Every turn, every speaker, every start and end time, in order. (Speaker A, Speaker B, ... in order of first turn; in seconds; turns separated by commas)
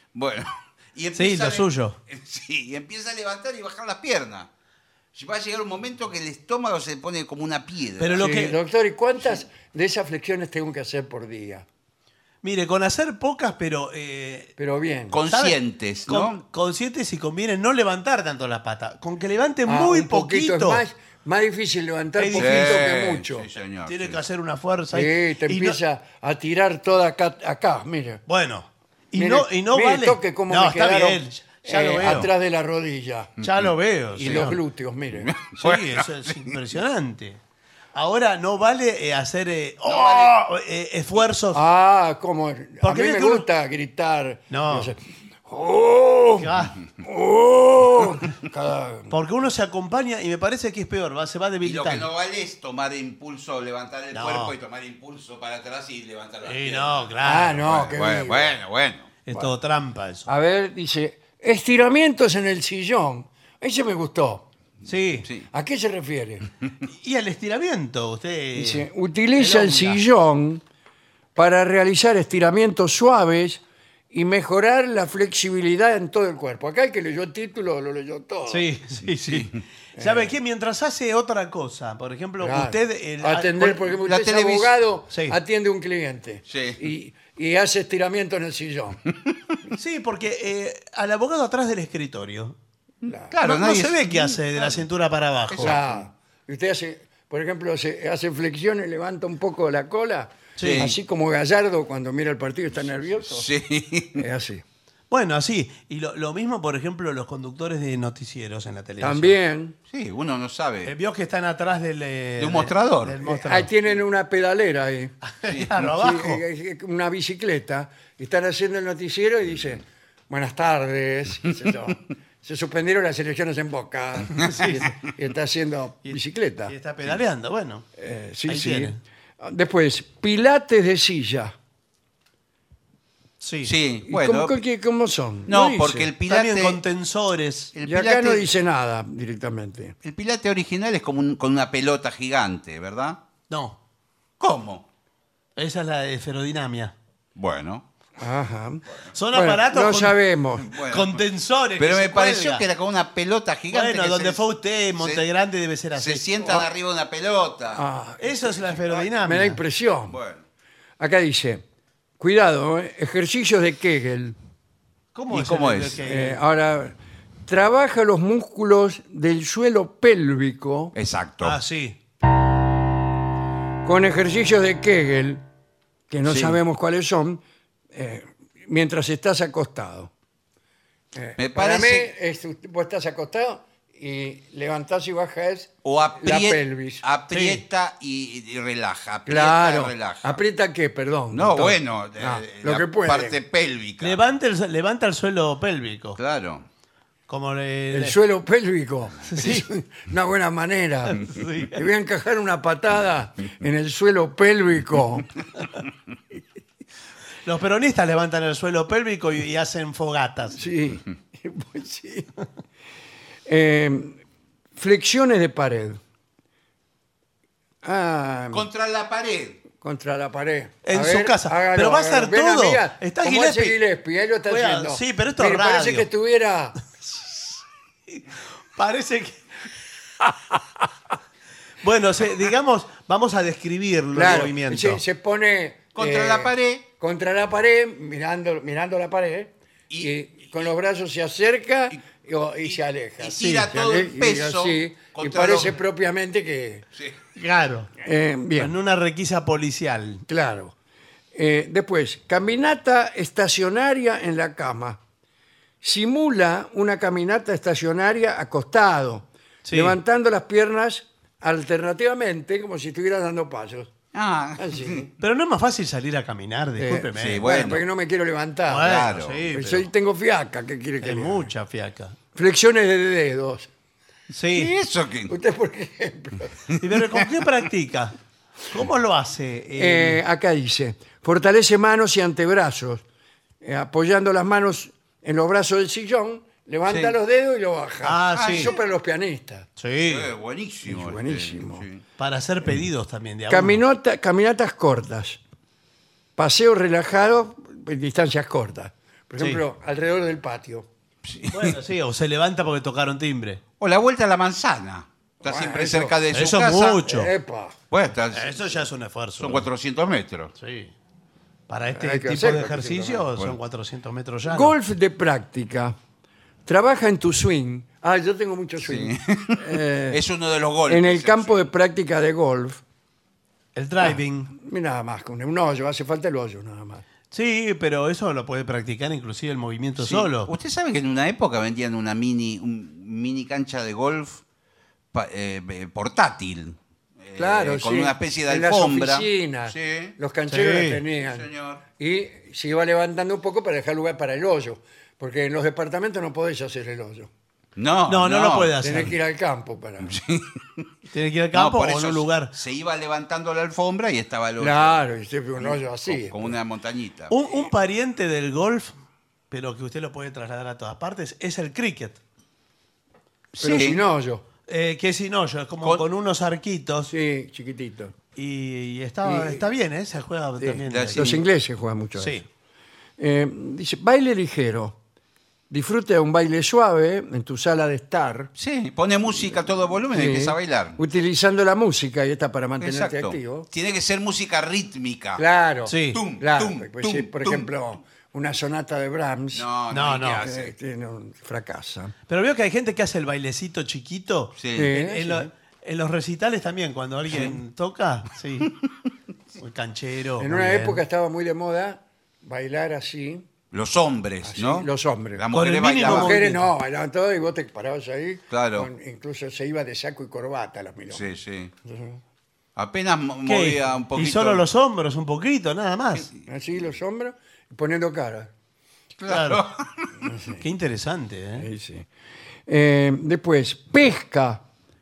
Speaker A: 0.1-4.5, Speaker B: 1.1-2.0, Speaker A: 5.1-8.5, Speaker B: 8.0-8.5, Speaker C: 8.2-11.6, Speaker B: 12.4-14.5, Speaker C: 14.6-15.2, Speaker A: 15.1-16.4, Speaker B: 15.3-20.8, Speaker C: 19.6-23.5, Speaker B: 22.2-22.9, Speaker A: 22.3-24.2, Speaker B: 23.9-25.8, Speaker C: 24.9-28.2, Speaker B: 28.3-32.3, Speaker C: 29.1-33.4, Speaker B: 33.4-34.6, Speaker C: 34.1-35.3, Speaker A: 35.1-36.5, Speaker B: 35.6-37.4, Speaker B: 37.9-41.6, Speaker A: 39.9-40.4, Speaker C: 41.5-49.1, Speaker B: 42.8-43.4, Speaker B: 44.5-44.9, Speaker B: 46.4-46.8, Speaker B: 49.1-52.1, Speaker A: 51.6-59.1, Speaker B: 54.1-54.5, Speaker B: 56.4-57.6, Speaker C: 57.2-58.6, Speaker B: 59.2-60.3, Speaker C: 60.2-64.5, Speaker B: 64.8-65.3, Speaker A: 65.2-65.5, Speaker C: 65.5-66.5, Speaker B: 66.8-70.0, Speaker C: 68.5-70.6, Speaker C: 71.3-78.7, Speaker B: 78.5-83.9, Speaker C: 80.0-80.3, Speaker C: 82.4-89.0, Speaker A: 83.9-84.7, Speaker B: 85.1-85.4, Speaker A: 86.5-86.8, Speaker B: 89.7-92.5, Speaker C: 93.0-93.4, Speaker A: 93.3-94.8, Speaker B: 93.4-95.8, Speaker C: 95.5-103.5, Speaker A: 95.6-96.0, Speaker B: 100.6-100.9, Speaker A: 100.6-101.0, Speaker A: 103.3-104.2, Speaker C: 104.2-104.6, Speaker B: 105.1-109.3, Speaker C: 109.0-109.8, Speaker A: 109.9-110.9, Speaker B: 110.8-113.7, Speaker A: 112.4-113.2, Speaker C: 113.2-115.2, Speaker B: 115.2-116.4, Speaker A: 115.4-115.7, Speaker C: 115.8-126.7, Speaker B: 124.3-124.9, Speaker B: 126.0-127.8, Speaker C: 128.0-131.5, Speaker B: 128.5-129.0, Speaker B: 133.4-133.7, Speaker A: 133.7-134.6, Speaker C: 134.1-136.1, Speaker A: 135.5-136.8, Speaker B: 136.3-137.7, Speaker A: 137.7-138.5, Speaker C: 137.8-139.9, Speaker A: 140.0-143.2, Speaker B: 143.5-143.8, Speaker A: 144.4-144.8, Speaker B: 145.6-146.9, Speaker A: 147.3-147.8, Speaker C: 148.2-150.7, Speaker B: 149.1-150.2, Speaker A: 150.6-151.2, Speaker B: 150.8-152.6, Speaker A: 151.8-154.4, Speaker B: 153.7-156.2, Speaker A: 155.0-155.3, Speaker A: 155.9-157.8, Speaker C: 157.7-160.2, Speaker B: 158.2-159.6, Speaker A: 160.1-160.4, Speaker C: 161.0-161.6, Speaker C: 162.2-164.3, Speaker B: 165.1-166.4, Speaker A: 165.3-166.0, Speaker C: 166.0-170.9, Speaker A: 170.9-171.6, Speaker B: 171.4-172.0, Speaker C: 173.8-175.4, Speaker C: 176.1-177.4, Speaker A: 176.2-176.6, Speaker C: 177.9-180.1, Speaker C: 181.1-187.0, Speaker A: 181.4-182.1, Speaker A: 185.8-190.4, Speaker B: 187.3-187.6, Speaker C: 189.2-193.4, Speaker A: 191.3-194.2, Speaker B: 194.0-196.2, Speaker A: 196.2-196.6, Speaker B: 197.3-198.2, Speaker C: 197.9-205.3, Speaker B: 199.3-199.7, Speaker B: 201.1-201.8, Speaker B: 207.4-210.6, Speaker C: 210.6-212.3, Speaker C: 213.4-214.2, Speaker C: 214.8-216.0, Speaker C: 217.8-218.7, Speaker A: 218.5-219.6, Speaker C: 219.8-226.8, Speaker B: 220.8-223.8, Speaker B: 224.4-226.1, Speaker B: 228.7-229.4, Speaker B: 231.8-235.0, Speaker C: 234.1-246.8, Speaker A: 235.9-236.8, Speaker A: 239.9-240.7, Speaker A: 242.6-245.8, Speaker B: 247.3-247.9, Speaker C: 248.0-248.7, Speaker B: 248.6-250.2, Speaker C: 250.3-250.7, Speaker C: 251.3-255.0, Speaker C: 255.8-263.9, Speaker B: 259.6-260.0, Speaker A: 264.1-265.1, Speaker C: 264.6-265.1, Speaker B: 265.2-267.5, Speaker C: 266.8-271.5, Speaker A: 267.1-267.8, Speaker B: 268.7-269.9, Speaker A: 268.8-269.4, Speaker B: 271.0-272.2, Speaker C: 272.3-273.7, Speaker B: 274.3-274.7, Speaker A: 274.5-275.3, Speaker C: 275.3-276.5, Speaker A: 276.7-277.1, Speaker B: 276.8-278.1, Speaker B: 278.7-280.2, Speaker C: 279.7-283.0, Speaker C: 283.6-289.7, Speaker A: 286.8-287.2, Speaker B: 288.0-288.7, Speaker A: 288.3-288.8, Speaker B: 289.8-290.3, Speaker A: 290.0-292.0, Speaker C: 290.9-291.8, Speaker B: 292.2-293.8, Speaker C: 293.5-295.4, Speaker C: 296.4-300.9, Speaker A: 301.2-301.7, Speaker B: 301.5-303.6, Speaker A: 303.8-307.0, Speaker C: 305.4-306.2, Speaker B: 306.3-307.3, Speaker C: 307.0-307.8, Speaker A: 307.9-310.5, Speaker B: 308.3-309.7, Speaker B: 310.6-310.9, Speaker B: 311.7-314.7, Speaker C: 311.9-313.3, Speaker C: 314.4-315.9, Speaker C: 316.6-320.2, Speaker A: 318.8-321.7, Speaker C: 320.9-322.8, Speaker B: 323.7-324.5, Speaker C: 324.0-327.0, Speaker B: 327.3-330.5, Speaker A: 330.0-334.4, Speaker A: 335.1-340.1, Speaker C: 337.4-347.3, Speaker B: 340.5-341.0, Speaker A: 341.1-341.8, Speaker A: 347.8-349.1, Speaker B: 348.1-349.2, Speaker C: 348.8-350.2, Speaker A: 350.0-350.9, Speaker B: 351.1-352.5, Speaker A: 351.5-355.0, Speaker C: 354.6-356.6, Speaker A: 355.6-357.3, Speaker B: 357.3-358.9, Speaker B: 359.5-362.2, Speaker A: 363.5-364.0, Speaker C: 363.6-364.4, Speaker B: 364.7-367.1, Speaker C: 367.1-368.1, Speaker B: 368.3-371.3, Speaker C: 369.2-369.7, Speaker C: 370.6-372.4, Speaker A: 370.9-371.4, Speaker B: 372.2-372.4, Speaker C: 373.2-375.0, Speaker C: 375.7-378.5, Speaker A: 378.6-381.0, Speaker C: 380.1-383.7, Speaker A: 382.8-385.4, Speaker C: 385.4-389.7, Speaker B: 385.9-386.2, Speaker A: 386.1-387.7, Speaker A: 389.5-390.7, Speaker B: 389.9-390.5, Speaker C: 390.4-392.1, Speaker B: 392.3-398.7, Speaker A: 394.6-394.9, Speaker C: 394.7-395.5, Speaker B: 399.6-401.0, Speaker C: 400.4-403.4, Speaker A: 403.7-406.4, Speaker C: 404.4-405.5, Speaker B: 405.5-406.7, Speaker C: 406.0-411.2, Speaker A: 408.5-408.9, Speaker A: 411.1-411.7, Speaker C: 411.8-412.2, Speaker A: 412.8-414.6, Speaker B: 413.4-416.3, Speaker A: 416.1-416.4, Speaker C: 416.5-418.5, Speaker A: 419.2-420.1, Speaker B: 419.3-419.6, Speaker C: 420.2-420.6, Speaker B: 420.6-421.7, Speaker C: 421.6-422.1, Speaker C: 422.7-424.6